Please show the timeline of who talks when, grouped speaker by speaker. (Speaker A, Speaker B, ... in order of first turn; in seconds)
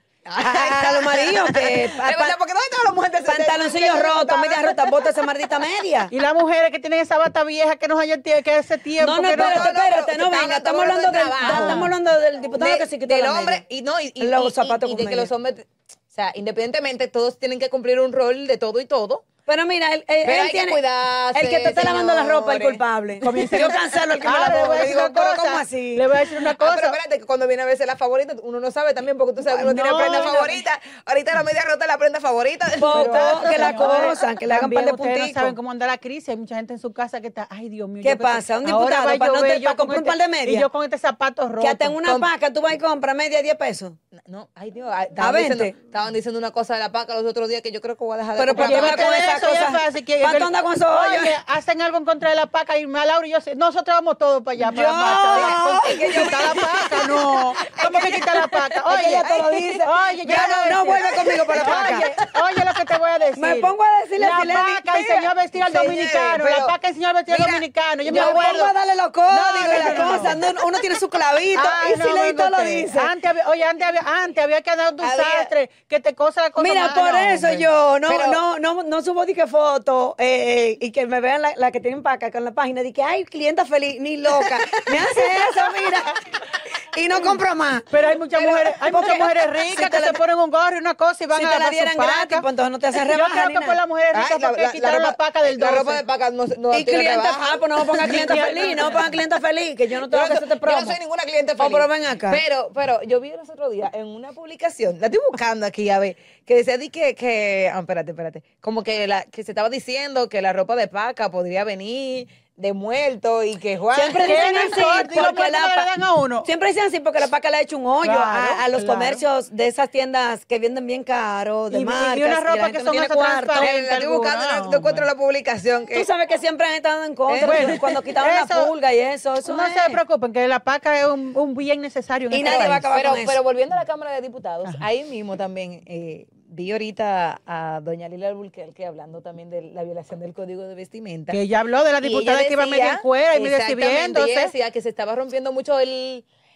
Speaker A: 0.3-5.3, 9.3-11.9, 12.6-19.3, 20.2-24.2, 26.6-34.3, 44.1-49.5, 55.1-58.5, 59.2-62.4, 64.9-66.8, 67.3-68.7, 69.5-71.6, 75.0-75.5, 78.1-78.4, 84.3-85.9, 88.3-89.1, 94.1-99.0, 100.1-115.0, 123.6-126.1, 127.3-127.8, 132.4-141.4, 142.0-146.3
Speaker B: 0.4-2.4, 3.3-6.1, 9.0-13.6, 14.2-15.3, 19.5-20.8, 21.3-26.1, 30.1-30.3, 32.8-35.5, 38.0-40.7, 41.6-44.0, 45.2-45.7, 48.4-51.4, 54.6-57.1, 58.9-62.1, 63.4-64.9, 68.0-73.1, 76.6-86.2, 86.9-87.9, 88.6-90.2, 91.4-93.8, 96.7-101.0, 101.6-102.4, 113.9-115.9, 116.5-123.7, 125.9-130.0, 132.3-133.4
Speaker C: 6.1-9.8, 11.4-11.9, 23.2-27.0, 29.5-30.6, 32.9-42.2, 48.5-59.3, 59.8-68.7, 69.3-70.4, 71.5-77.7, 87.9-96.0, 98.0-99.1, 114.2-116.5, 118.0-119.2, 121.7-125.1, 127.4-128.7, 129.4-132.9, 141.3-144.5